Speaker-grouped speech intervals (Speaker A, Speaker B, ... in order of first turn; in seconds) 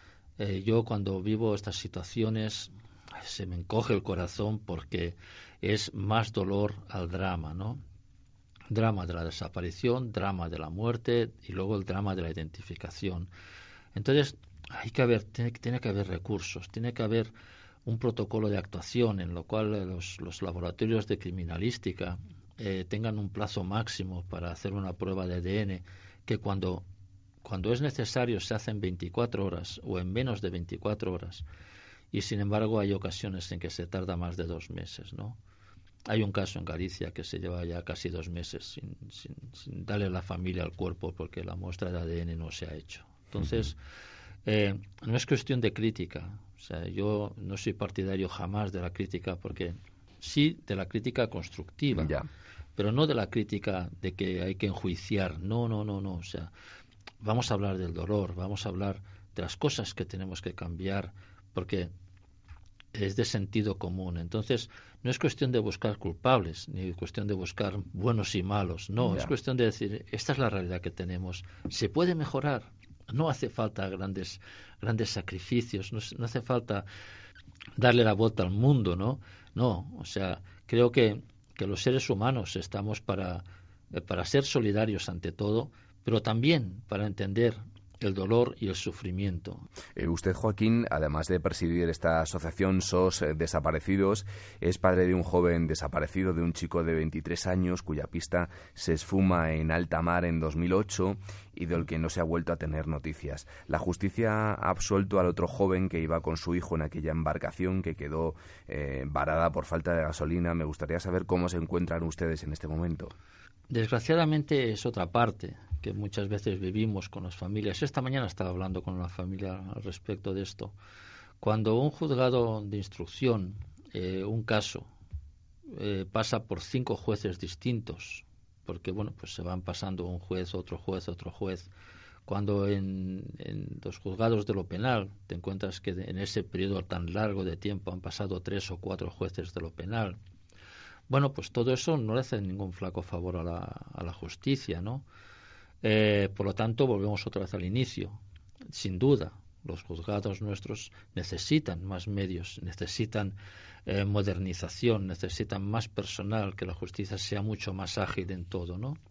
Speaker A: 0.4-7.8, 8.7-13.3, 13.9-17.3, 17.9-26.9, 27.4-31.5, 32.1-35.4, 36.1-43.8, 44.5-52.2, 52.8-56.5, 57.2-61.9, 62.9-76.9, 77.8-89.7, 113.7-120.8, 121.4-124.9, 125.7-131.7, 132.3-140.2, 141.1-145.1, 145.8-148.2, 148.7-159.0
Speaker B: 52.0-52.3, 69.0-69.3, 90.0-113.1